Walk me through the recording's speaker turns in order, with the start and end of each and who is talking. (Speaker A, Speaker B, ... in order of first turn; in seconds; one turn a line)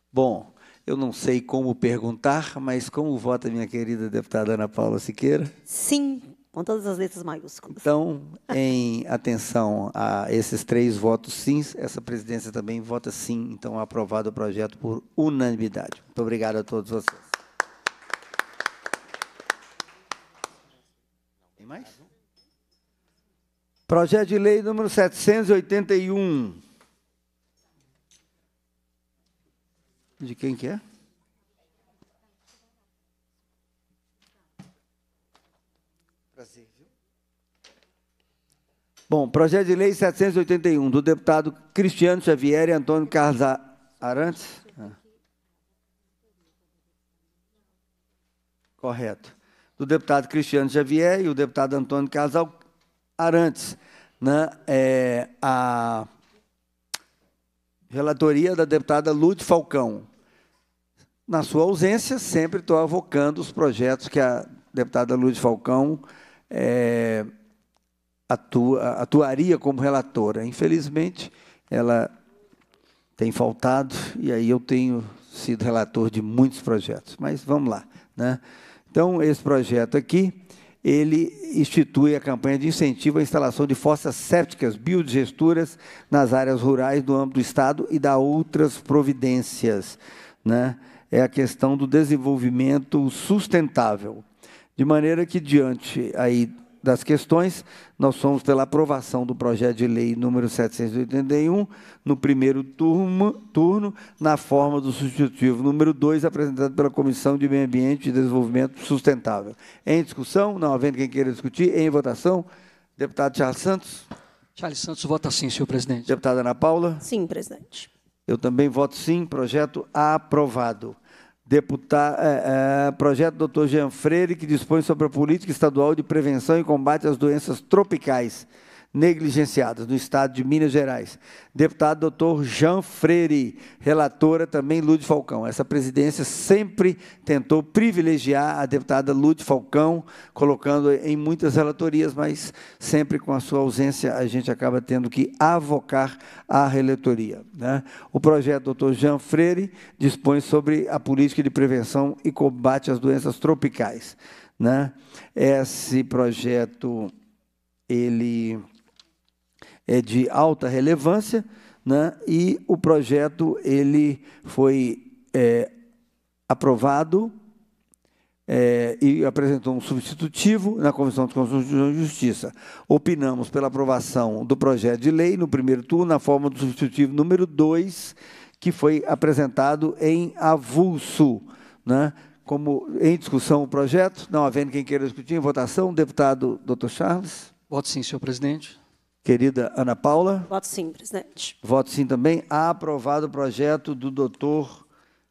Speaker A: 0.1-5.5
Speaker B: 5.7-7.8
Speaker A: 7.7-17.3
Speaker A: 21.6-21.9
Speaker A: 23.9-26.6
Speaker A: 30.2-30.8
Speaker A: 36.4-36.6
Speaker A: 39.1-44.9
Speaker A: 48.8-52.5
Speaker A: 53.2-56.1
Speaker A: 57.9-60.1
Speaker A: 61.3-67.3
Speaker A: 68.3-72.1
Speaker A: 73.2-78.4
Speaker A: 78.9-94.2
Speaker A: 94.8-112.5
Speaker A: 113.0-114.1
Speaker C: 114.6-116.1
Speaker A: 116.1-117.0
Speaker B: 117.0-117.9
Speaker A: 118.3-121.0
Speaker A: 121.5-157.1
Speaker A: 157.9-158.6
Speaker A: 159.9-165.7
Speaker A: 166.5-167.3
Speaker A: 168.5-187.5
Speaker C: 187.7-188.8
Speaker A: 189.2-190.5
Speaker B: 190.5-191.6
Speaker A: 191.6-194.8